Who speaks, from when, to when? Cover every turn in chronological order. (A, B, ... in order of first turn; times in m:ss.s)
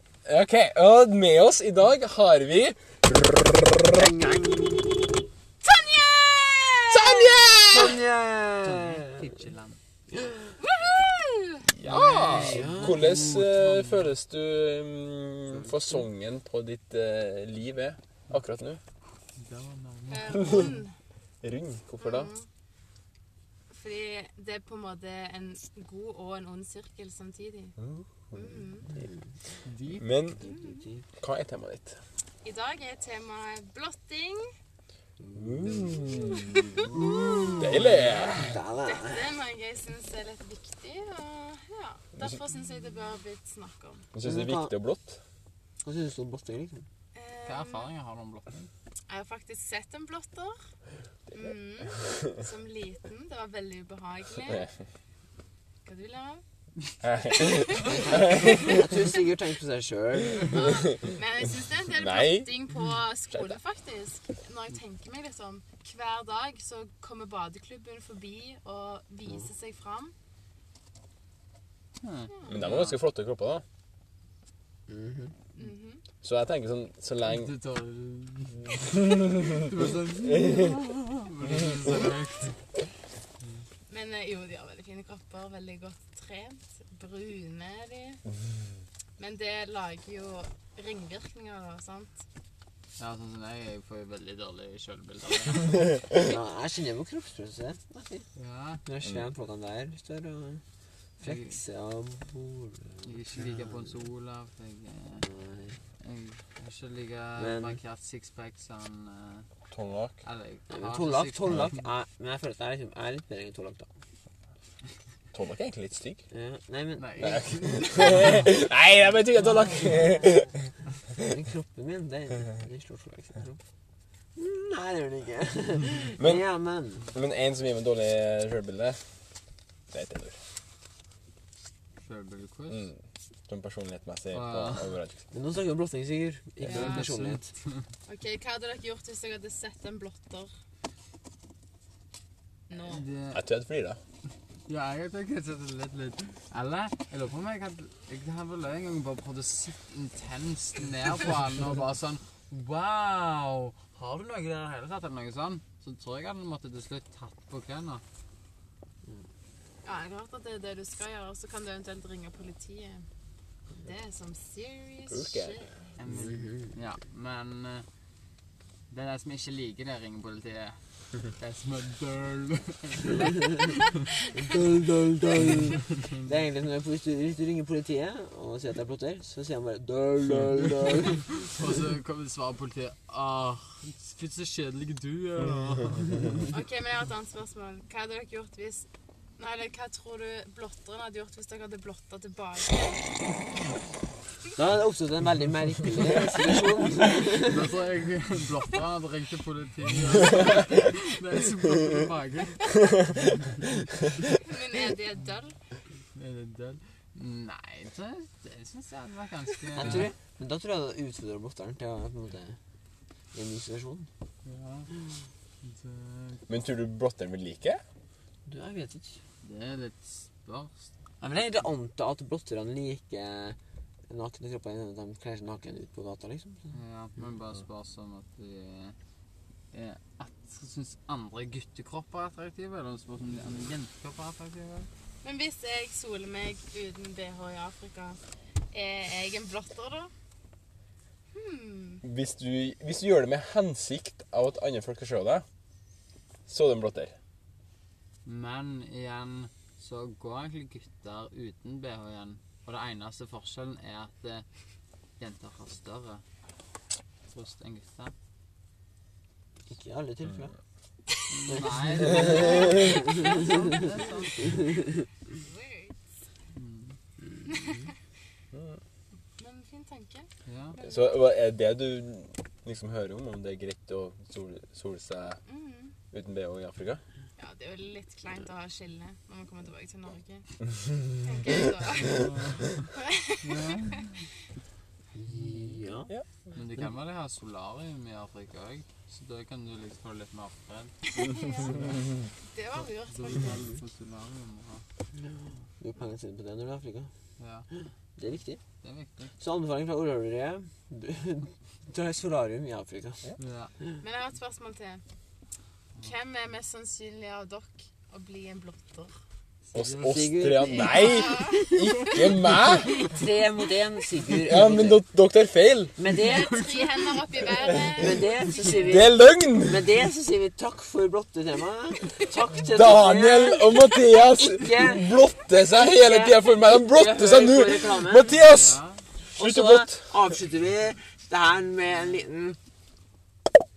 0:00.3-0:04.1 A
0:03.9-0:04.8 B
0:06.0-0:07.0 B
0:06.9-0:08.0 A
0:07.7-0:09.2 B
0:08.6-0:09.8 C
0:10.6-0:11.7 D
0:11.7-0:18.8 A
0:11.8-0:14.1 C
0:12.3-0:13.0 B
0:19.4-0:20.6 C
0:20.1-0:20.9 D
0:20.4-0:20.7 A
0:21.4-0:22.3 A
0:22.0-0:22.5 D
0:23.7-0:27.8 D
0:27.8-0:28.3 A
0:28.3-0:28.9 D
0:29.6-0:30.1 C
0:30.0-0:30.4 A
0:30.4-0:31.0 B
0:30.4-0:30.8 D
0:31.2-0:32.0 A
0:32.4-0:34.5 D
0:35.2-0:36.0 B
0:35.3-0:36.9 A
0:35.9-0:37.9 D
0:36.9-0:37.6 B
0:37.6-0:38.6 A
0:37.7-0:38.6 C
0:38.4-0:39.3 B
0:38.9-0:44.1 D
0:44.1-0:45.2 A
0:44.2-0:44.8 B
0:45.8-0:46.8 B
0:47.1-0:47.9 D
0:47.4-0:48.7 C
0:49.1-0:50.6 D
0:51.3-0:54.7 D
0:55.8-0:56.4 D
0:57.0-0:58.9 A
0:57.2-0:58.4 D
0:57.8-1:00.6 B
1:00.4-1:10.1 D
1:01.9-1:02.5 A
1:12.0-1:13.0 C
1:12.5-1:13.6 A
1:14.9-1:15.3 B
1:15.6-1:16.0 D
1:16.2-1:17.5 A
1:17.3-1:22.6 C
1:23.9-1:28.2 D
1:29.2-1:32.2 D
1:33.0-1:36.0 C
1:36.1-1:38.2 B
1:38.4-1:38.8 C
1:38.8-1:40.6 B
1:41.2-1:44.0 B
1:41.2-1:41.6 C
1:43.0-1:45.3 C
1:45.2-1:45.8 B
1:46.0-1:49.5 C
1:47.4-1:47.8 B
1:49.7-1:50.2 A
1:50.2-1:51.8 C
1:50.7-1:53.9 B
1:55.3-1:56.2 A
1:56.3-1:57.4 B
1:57.0-1:58.5 C
1:57.2-2:00.6 A
1:59.4-2:00.2 C
2:01.2-2:03.6 B
2:04.4-2:07.0 B
2:06.2-2:06.4 A
2:07.1-2:09.0 A
2:09.9-2:10.4 A
2:12.0-2:12.9 C
2:12.7-2:15.2 A
2:14.3-2:15.0 C
2:15.3-2:17.5 B
2:16.6-2:17.9 C
2:16.7-2:17.1 D
2:18.1-2:20.5 D
2:22.7-2:23.0 D
2:22.8-2:23.4 C
2:23.3-2:24.0 A
2:24.7-2:38.0 C
2:39.8-2:43.1 D
2:43.8-2:45.7 D
2:45.1-2:45.6 A
2:46.0-2:47.9 C
2:46.1-2:46.7 B
2:48.9-2:54.1 C
2:54.3-3:01.2 B
2:55.4-2:56.2 C
3:01.0-3:06.2 C
3:06.5-3:13.2 D
3:14.6-3:17.7 B
3:17.0-3:22.8 C
3:24.4-3:25.6 D
3:26.1-3:30.1 C
3:29.7-3:32.6 B
3:33.3-3:34.1 B
3:34.4-3:34.9 C
3:35.6-3:36.4 C
3:36.5-3:37.8 A
3:38.4-3:39.2 B
3:39.4-3:40.9 C
3:41.2-3:43.6 B
3:44.1-3:46.8 B
3:46.7-3:49.0 C
3:49.7-3:54.9 C
3:55.2-3:58.2 D
3:58.7-4:00.1 D
4:01.3-4:02.0 D
4:02.0-4:05.4 A
4:06.5-4:07.2 A
4:08.2-4:14.4 C
4:15.2-4:16.2 C
4:17.3-4:18.1 C
4:19.7-4:20.5 B
4:21.3-4:24.7 C
4:21.5-4:23.4 B
4:22.2-4:23.6 D
4:25.4-4:26.0 D
4:26.5-4:27.0 C
4:27.4-4:27.9 D
4:28.5-4:28.8 A
4:29.4-4:31.1 D
4:30.4-4:30.8 C
4:30.8-4:35.4 A
4:35.4-4:35.9 D
4:36.1-4:37.0 A
4:37.4-4:40.5 D
4:41.1-4:42.2 D
4:42.0-4:42.9 C
4:43.0-4:43.4 D
4:43.4-4:44.2 C
4:45.2-4:46.1 B
4:45.3-4:45.9 C
4:46.5-4:51.0 C
4:51.1-4:53.7 D
4:51.6-4:52.0 C
4:52.8-4:54.8 C
4:55.8-4:57.1 B
4:57.4-4:57.6 C
4:58.2-4:58.6 B
4:58.8-4:59.3 C
4:59.4-5:03.3 B
5:03.4-5:03.7 C
5:04.0-5:05.0 D
5:06.0-5:09.2 D
5:09.7-5:10.6 C
5:09.7-5:13.0 A
5:10.0-5:11.4 B
5:10.8-5:12.3 D
5:13.0-5:15.0 B
5:14.4-5:16.0 A
5:16.0-5:16.6 B
5:16.1-5:17.4 C
5:16.2-5:19.2 D
5:17.9-5:19.1 B
5:18.8-5:19.9 A
5:19.6-5:25.1 B
5:22.6-5:28.8 A
5:25.8-5:28.4 B
5:28.4-5:29.0 C
5:29.3-5:32.6 B
5:29.4-5:30.0 A